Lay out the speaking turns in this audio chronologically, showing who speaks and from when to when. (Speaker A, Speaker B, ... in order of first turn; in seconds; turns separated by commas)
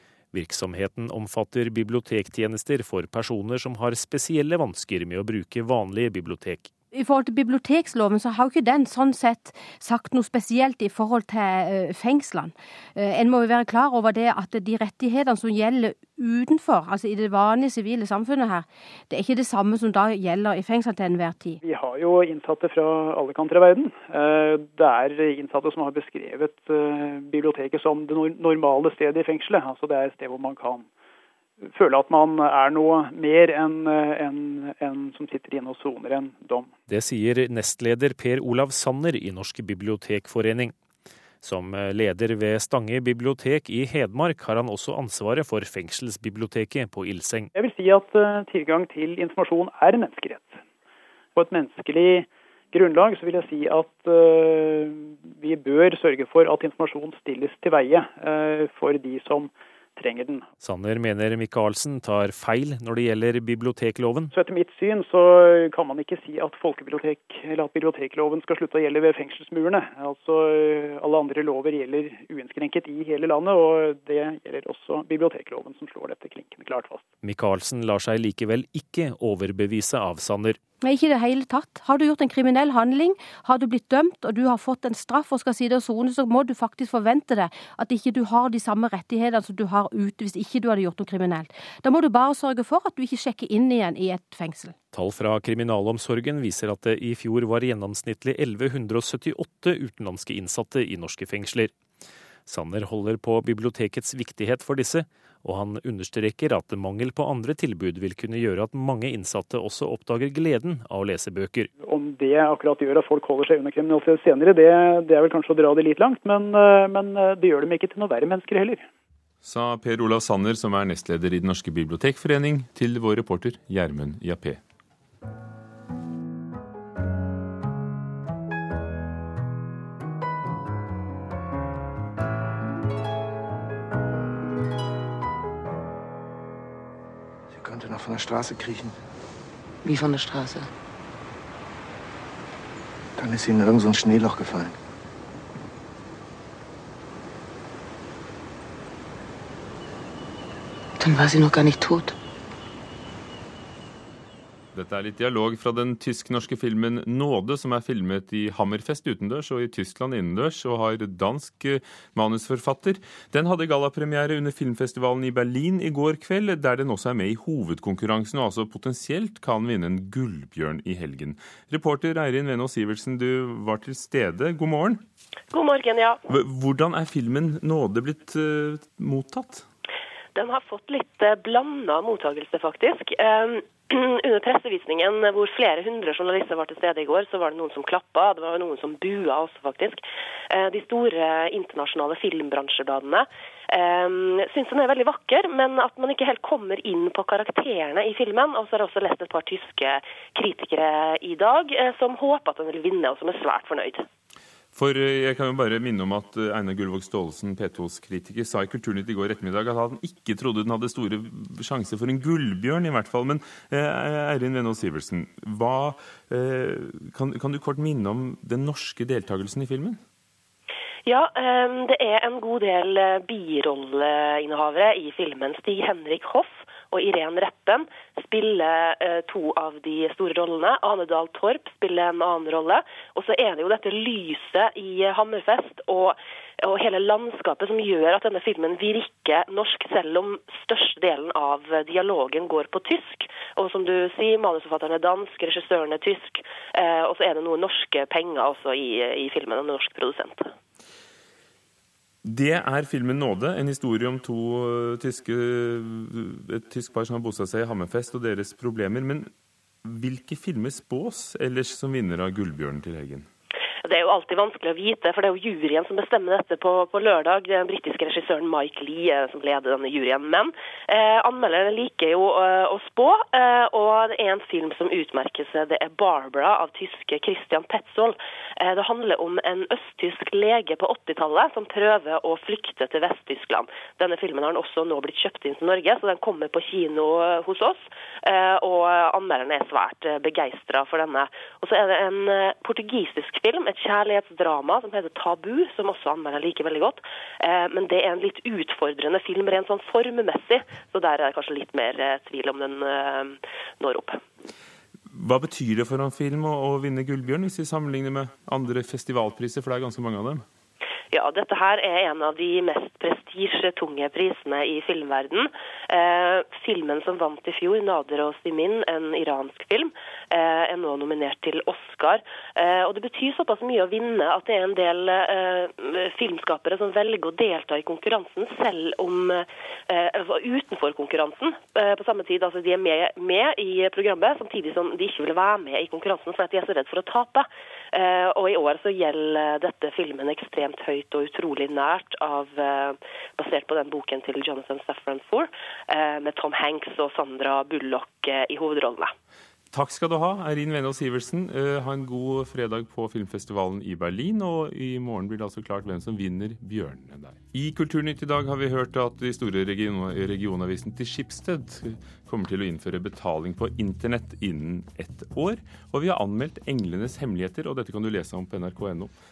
Speaker A: 0.3-6.7, Speaker B: 6.9-21.6, Speaker C: 21.6-30.9, Speaker C: 31.7-36.7, Speaker A: 36.9-40.7, Speaker A: 41.4-47.5, Speaker C: 47.5-50.6, Speaker C: 51.4-60.5, Speaker A: 60.6-64.3, Speaker C: 64.3-77.0, Speaker A: 77.2-80.6, Speaker B: 80.8-94.7, Speaker A: 94.9-101.7, Speaker A: 102.5-111.7, Speaker C: 111.8-118.8, Speaker D: 119.4-124.6, Speaker E: 137.5-139.0, Speaker F: 139.8-140.7, Speaker E: 143.2-144.8, Speaker F: 151.0-152.1, Speaker D: 154.7-175.0, Speaker G: 175.5-176.2, Speaker D: 176.3-179.6, Speaker G: 180.3-204.0, Speaker D: 204.7-220.0, Speaker G: 221.1-250.5, Speaker D: 252.2-259.3, Speaker D: 259.8-263.3, Speaker G: 263.8-304.2, Speaker D: 305.1-310.4, Speaker G: 311.1-349.1, Speaker D: 349.7-369.1